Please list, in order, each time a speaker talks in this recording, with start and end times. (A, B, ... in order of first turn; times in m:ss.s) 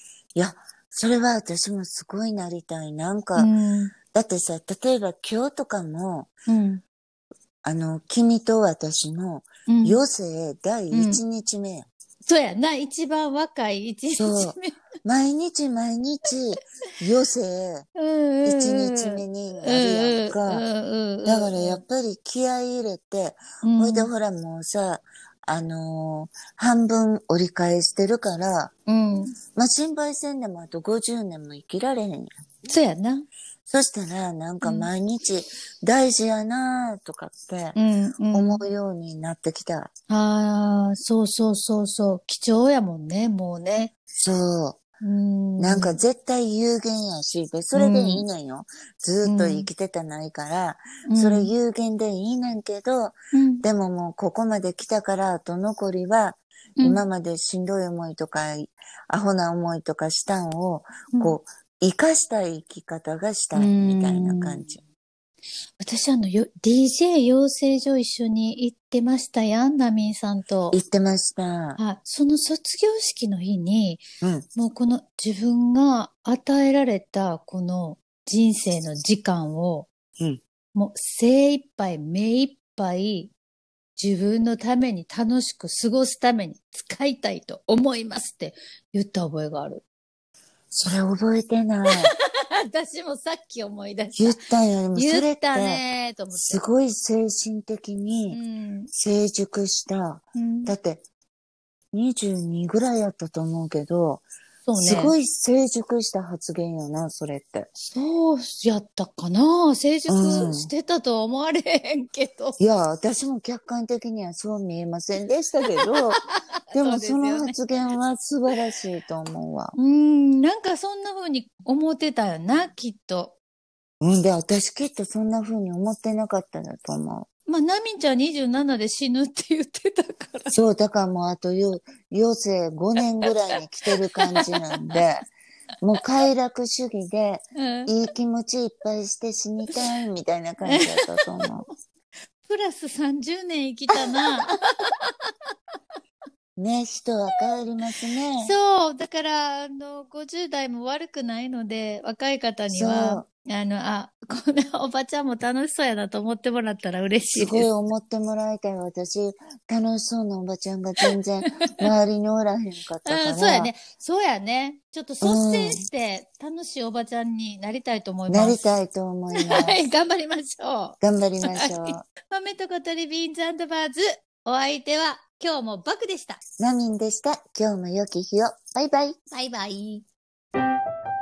0:00.3-0:03.5 A
0:03.4-0:03.9 B
0:04.1-0:06.3 A
0:06.5-0:06.8 B
0:07.6-0:11.9 A
0:09.7-0:10.0 B
0:10.9-0:11.2 B
0:12.2-0:14.7 B
0:14.1-0:17.9 A
0:17.9-0:21.8 B
0:18.4-0:20.6 A
0:21.2-0:28.7 A
0:23.6-0:24.1 B
0:28.8-0:29.4 B
0:29.6-0:32.3 A
0:32.6-0:33.3 B
0:33.7-0:37.8 A
0:34.6-0:34.9 B
0:37.7-0:38.6 B
0:38.3-0:39.9 A
0:40.1-0:43.9 B
0:44.1-0:44.8 A
0:45.0-0:46.0 B
0:45.6-1:04.8 A
0:47.7-0:48.2 B
0:49.2-0:49.7 B
0:51.0-0:51.5 B
0:53.3-0:53.6 B
1:03.5-1:04.7 B
1:05.8-1:10.8 B
1:10.7-1:11.8 A
1:11.8-1:14.0 B
1:14.2-1:14.4 A
1:14.5-1:19.9 B
1:20.7-1:23.3 B
1:24.0-1:29.8 B
1:30.7-1:32.1 A
1:32.0-1:34.4 B
1:34.2-1:35.8 A
1:34.9-1:36.6 B
1:36.3-1:38.4 A
1:38.3-1:38.9 B
1:38.9-1:41.0 A
1:40.3-1:40.7 B
1:41.9-1:47.7 A
1:44.6-1:45.1 B
1:47.8-1:52.6 B
1:50.1-1:50.7 A
1:52.6-1:56.2 A
1:56.2-1:57.6 B
1:56.7-1:59.7 A
1:59.8-2:03.4 B
2:04.0-2:07.3 A
2:07.5-2:10.5 B
2:10.5-2:15.2 A
2:13.9-2:15.0 B
2:15.8-2:21.6 A
2:17.6-2:17.9 B
2:20.6-2:21.5 B
2:22.4-2:25.3 B
2:23.9-2:24.4 A
2:26.6-2:28.5 A
2:28.4-2:37.7 B
2:32.7-2:33.3 A
2:37.3-2:43.7 A
2:43.0-2:48.6 B
2:45.2-2:45.8 A
2:48.3-2:49.8 A
2:49.3-2:56.4 B
2:51.0-2:52.0 A
2:56.6-2:59.2 A
2:59.3-3:00.0 B